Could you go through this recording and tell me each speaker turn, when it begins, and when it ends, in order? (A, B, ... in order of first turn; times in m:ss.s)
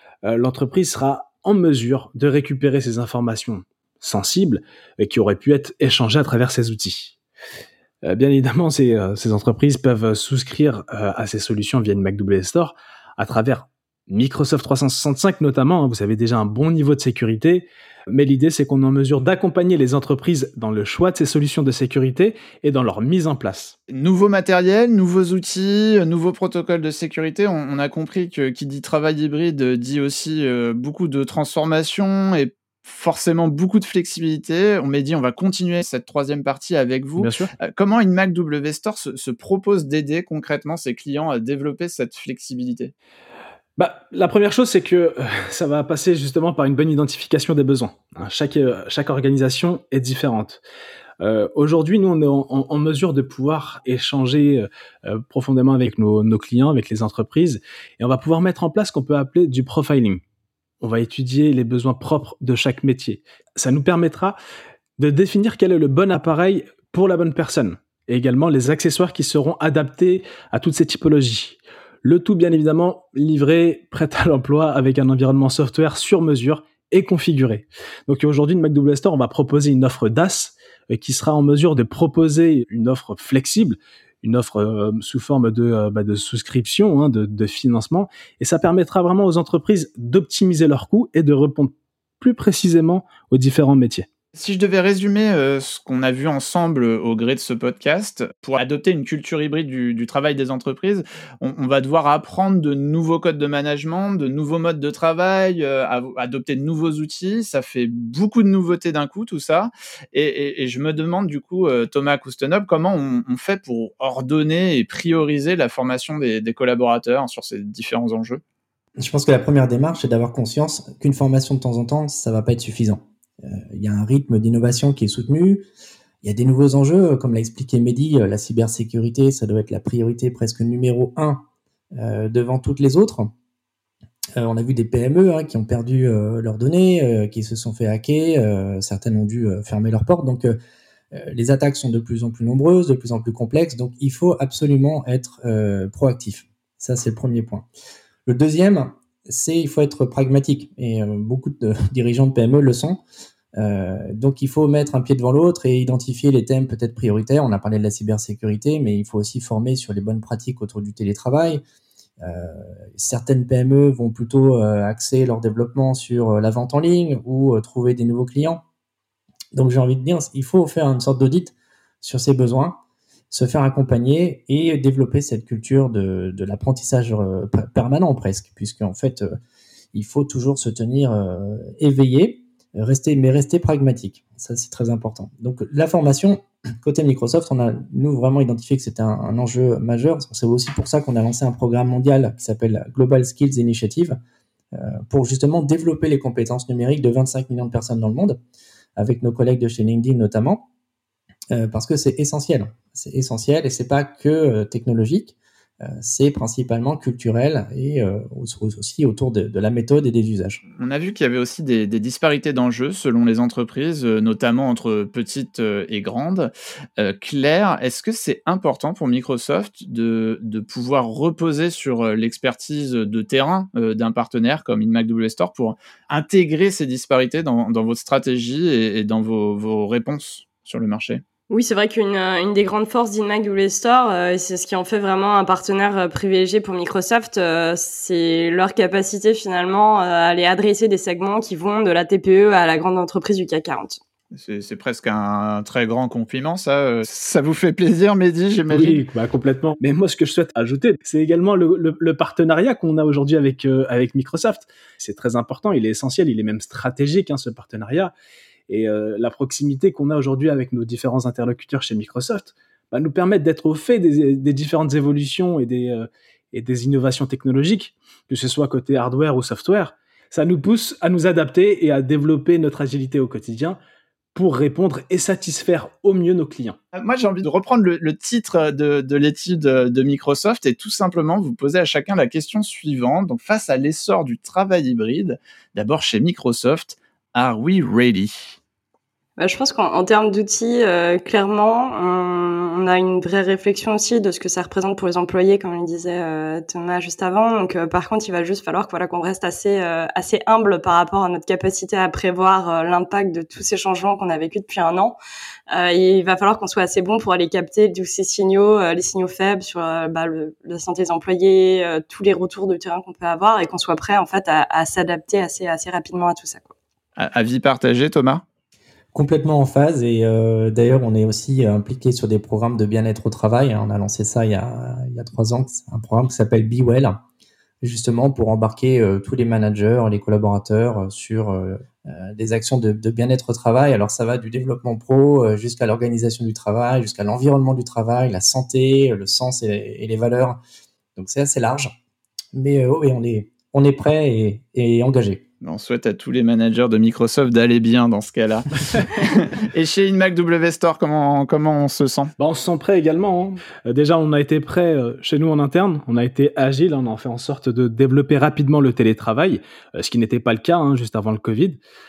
0:00.2-0:07.2 A
0:08.0-0:23.8 A
0:23.9-0:42.9 B
0:37.2-0:37.5 A
0:43.8-0:50.6 A
0:51.2-1:00.2 A
1:00.8-1:04.4 A
1:05.0-1:34.1 A
1:34.4-1:58.4 B
1:59.0-2:05.6 C
2:06.2-2:11.4 C
2:11.9-2:13.3 C
2:14.4-2:20.6 C
2:21.1-2:27.6 C
2:28.2-2:33.0 C
2:33.6-2:41.6 C
2:42.2-2:48.6 C
2:49.5-2:52.8 C
2:53.3-2:59.3 C
2:59.9-3:14.1 C
3:14.7-3:18.4 C
3:19.0-3:20.7 C
3:21.5-3:30.6 C
3:30.8-3:51.2 B
3:51.5-4:04.0 D
4:04.3-4:09.0 B
4:08.7-4:18.1 A
4:18.7-4:33.8 A
4:34.3-4:36.8 A
4:36.9-4:48.6 B
4:49.4-5:05.2 D
5:05.7-5:16.7 D
5:17.2-5:18.4 B
5:19.1-5:27.2 C
5:27.8-5:40.6 C
5:41.2-5:41.9 C
5:42.5-5:45.4 C
5:45.6-5:52.3 B
5:52.4-6:01.8 A